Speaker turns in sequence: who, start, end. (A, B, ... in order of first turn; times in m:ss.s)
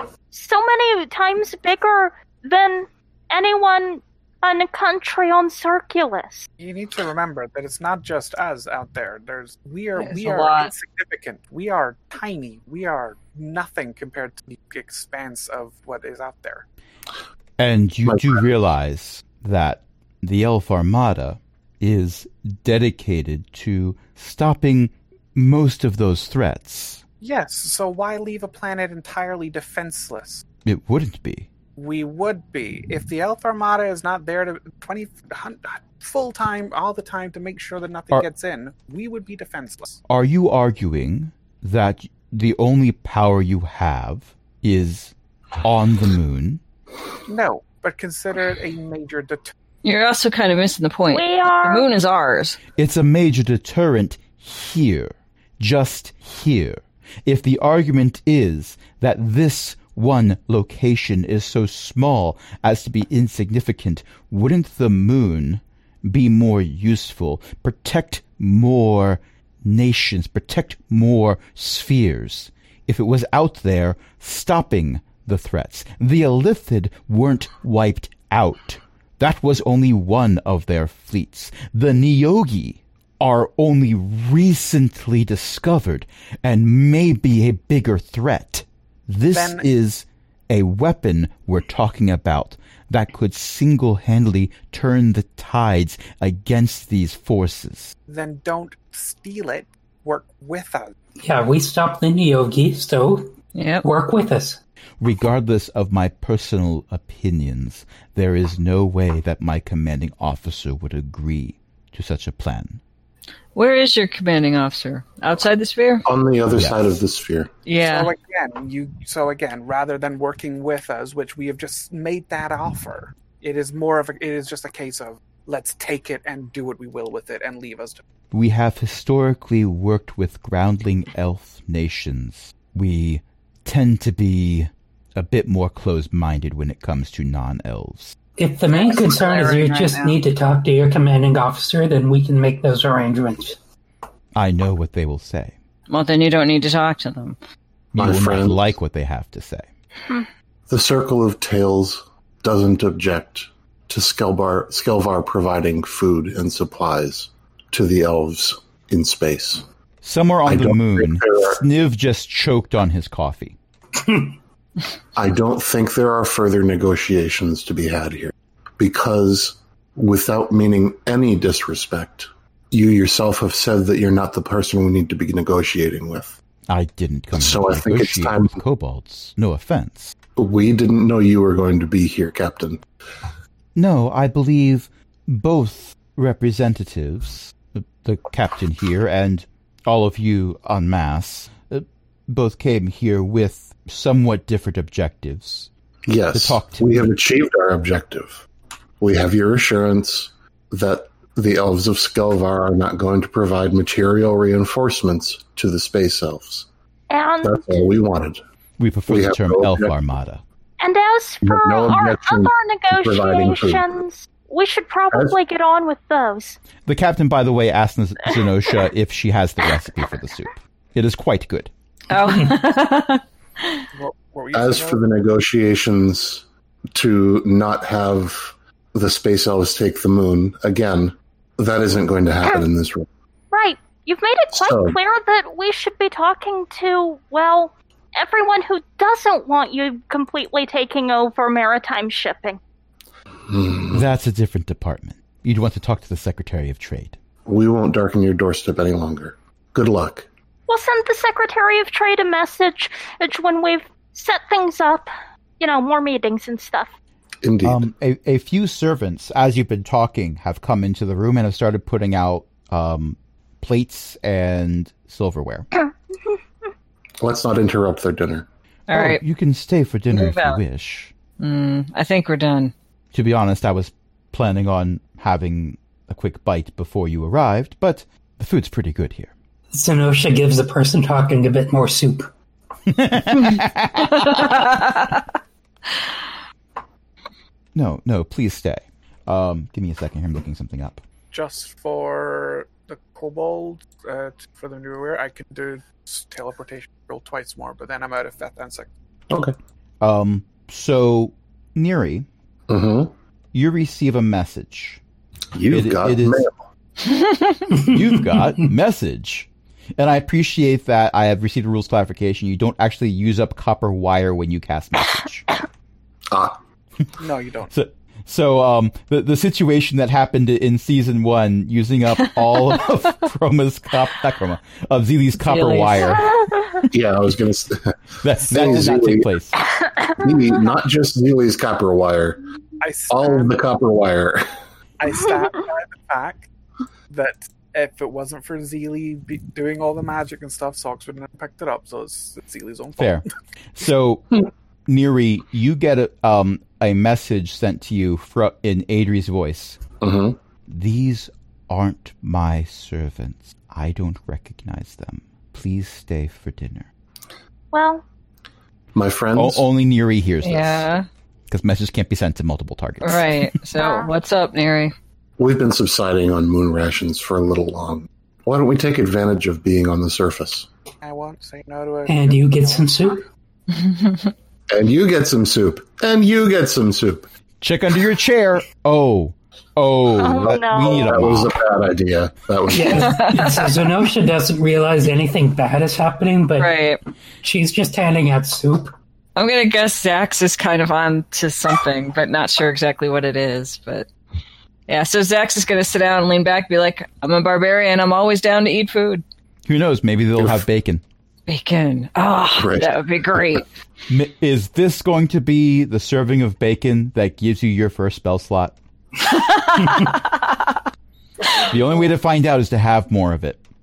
0:00.3-0:06.5 A
0:06.6-0:16.6 B
0:10.0-0:10.7 C
0:17.6-0:27.0 D
0:18.0-0:18.4 E
0:27.2-0:30.4 B
0:30.6-0:31.5 D
0:31.8-0:40.0 B
0:40.1-0:46.6 D
0:47.2-0:49.5 B
0:49.8-0:52.6 C
0:51.1-0:51.9 A
0:52.8-1:37.9 D
1:29.3-1:29.6 B
1:38.1-1:40.9 B
1:41.2-1:44.6 F
1:43.5-1:43.8 C
1:45.0-1:52.8 D
1:53.5-1:56.0 C
1:56.0-1:57.5 E
1:56.5-1:56.8 D
1:57.6-1:58.1 C
1:57.8-2:08.0 B
2:08.3-2:18.2 D
2:18.4-2:23.6 F
2:18.7-2:20.2 C
2:24.4-2:25.5 D
2:25.9-2:27.4 C
2:27.9-2:29.7 D
2:28.0-2:28.7 E
2:30.7-2:39.6 E
2:40.0-2:43.6 D
2:40.4-2:41.6 E
2:45.2-2:56.4 E
2:56.7-3:00.1 D
2:57.3-2:58.6 E
3:00.4-3:02.8 E
3:03.7-3:15.7 D
3:16.1-3:18.4 E
3:16.3-3:17.1 D
3:19.0-3:26.7 E
3:27.1-3:27.6 A
3:27.4-3:28.4 E
3:28.8-3:30.4 D
3:29.1-3:29.9 E
3:30.8-3:36.6 A
3:31.4-3:33.8 E
3:36.8-3:41.7 D
3:42.1-3:43.8 C
3:43.9-3:45.0 B
3:44.5-3:53.1 E
3:53.5-4:02.6 A
3:54.5-3:55.0 E
4:03.5-4:04.0 E
4:03.9-4:07.2 D
4:07.4-4:10.3 E
4:10.7-4:16.9 A
4:17.4-4:17.8 E
4:17.6-4:25.7 D
4:27.2-4:28.4 E
4:28.9-4:29.2 C
4:28.9-4:31.1 D
4:30.1-4:30.6 C
4:31.4-4:32.7 C
4:33.1-4:39.3 D
4:39.7-4:42.3 F
4:42.9-4:44.5 D
4:44.3-4:45.0 C
4:47.7-4:51.0 D
4:51.3-4:58.9 B
4:59.3-4:59.6 E
5:00.0-5:02.3 D
5:02.7-5:03.1 E
5:03.5-5:05.0 D
5:05.5-5:06.6 E
5:05.7-5:06.4 D
5:07.0-5:07.5 C
5:07.8-5:15.4 D
5:16.3-5:16.6 E
5:17.2-5:17.7 B
5:17.7-5:26.3 D
5:25.4-5:26.2 C
5:26.4-5:26.8 A
5:26.9-5:29.3 E
5:28.2-5:29.6 D
5:30.1-5:32.4 E
5:32.8-5:33.6 B
5:33.1-5:34.4 E
5:35.0-5:36.5 B
5:37.1-5:43.2 B
5:43.0-5:49.8 D
5:50.0-5:50.4 E
5:50.7-5:56.9 D
5:57.7-5:58.0 A
5:58.9-5:59.6 E
5:59.3-6:00.9 D
6:00.4-6:01.1 C
6:01.5-6:03.2 D
6:03.0-6:04.9 C
6:03.8-6:04.1 A
6:05.4-6:10.7 E
6:11.0-6:13.2 B
6:12.1-6:13.2 F
6:13.7-6:14.3 C
6:14.7-6:17.2 E
6:17.6-6:21.6 D
6:20.2-6:21.2 A
6:20.5-6:23.3 E
6:22.7-6:26.8 F
6:23.0-6:23.5 C
6:26.6-6:27.0 C
6:27.4-6:28.9 F
6:29.4-6:34.1 C
6:34.9-6:39.2 C
6:39.7-6:41.0 D
6:41.5-6:43.7 C
6:42.6-6:42.9 E
6:44.1-6:48.7 D
6:49.2-6:50.6 C
6:51.6-6:53.6 D